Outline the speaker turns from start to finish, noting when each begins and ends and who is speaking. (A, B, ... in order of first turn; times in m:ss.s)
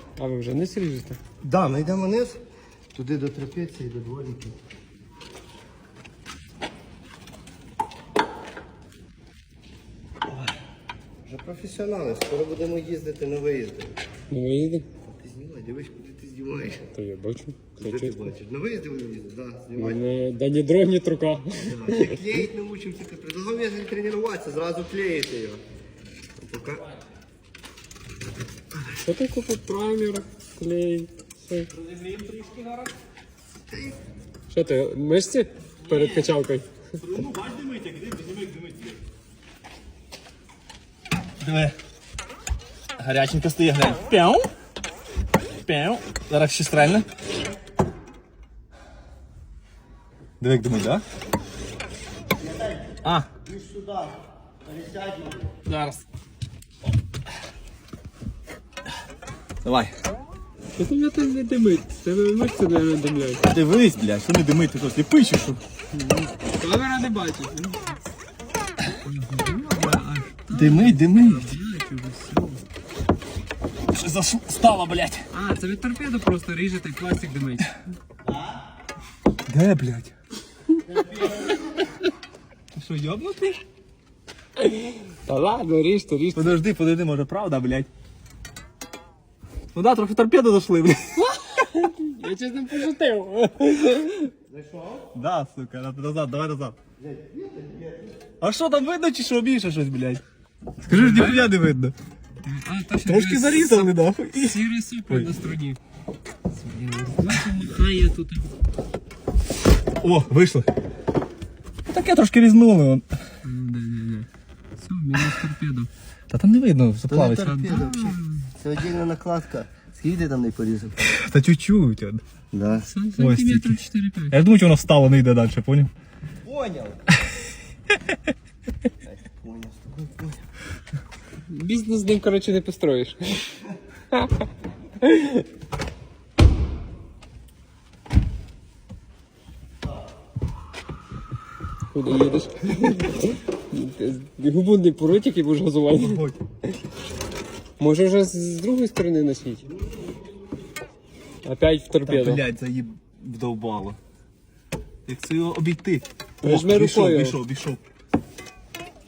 0:00.2-0:01.2 A
0:01.4-0:02.4 B
0:03.0-0:04.6 B
0:11.2-0:14.0 B
0:14.3-0:14.9 A
0:15.0-0:16.8 B
0:16.9-0:18.3 A
0:17.8-0:20.0 B
0:19.8-0:22.1 A
0:21.6-0:25.6 B
0:26.4-0:26.8 B
0:28.9-0:31.7 A
0:34.5-0:36.7 A
0:35.8-0:36.3 C
0:37.0-0:39.0 C
0:41.4-0:41.8 C
0:43.0-0:44.5 C
0:45.6-0:47.1 C
0:50.4-0:51.0 C
0:52.4-0:55.5 B
0:55.7-0:56.0 C
0:59.6-0:59.9 C
1:00.8-1:03.4 A
1:03.5-1:05.6 C
1:05.9-1:07.8 A
1:08.9-1:12.6 A
1:10.5-1:11.3 B
1:10.6-1:11.5 C
1:13.9-1:15.2 C
1:15.3-1:17.7 A
1:19.5-1:20.1 C
1:22.7-1:23.6 C
1:24.6-1:26.6 A
1:26.4-1:27.9 C
1:29.7-1:31.3 C
1:31.2-1:34.3 A
1:34.5-1:35.1 B
1:35.1-1:36.8 C
1:37.0-1:38.2 B
1:38.4-1:40.2 C
1:40.8-1:41.9 C
1:40.9-1:41.5 A
1:42.4-1:45.8 A
1:43.1-1:45.3 C
1:46.7-1:48.5 A
1:47.2-1:47.7 C
1:50.0-1:50.7 C
1:51.9-1:53.1 C
1:53.4-1:54.3 A
1:54.8-1:55.9 A
1:56.3-1:57.9 C
1:57.1-2:01.1 B
1:57.6-1:58.5 A
2:01.0-2:02.2 C
2:02.5-2:02.9 B
2:02.8-2:04.4 A
2:03.2-2:03.8 C
2:04.3-2:05.9 C
2:06.4-2:07.0 B
2:09.0-2:10.4 B
2:11.5-2:13.6 A
2:14.1-2:14.5 A
2:15.0-2:15.4 A
2:21.9-2:26.2 A
2:25.9-2:26.4 C
2:27.8-2:29.6 A
2:31.4-2:32.4 A
2:32.1-2:34.0 C
2:35.1-2:37.8 C
2:36.4-2:37.4 A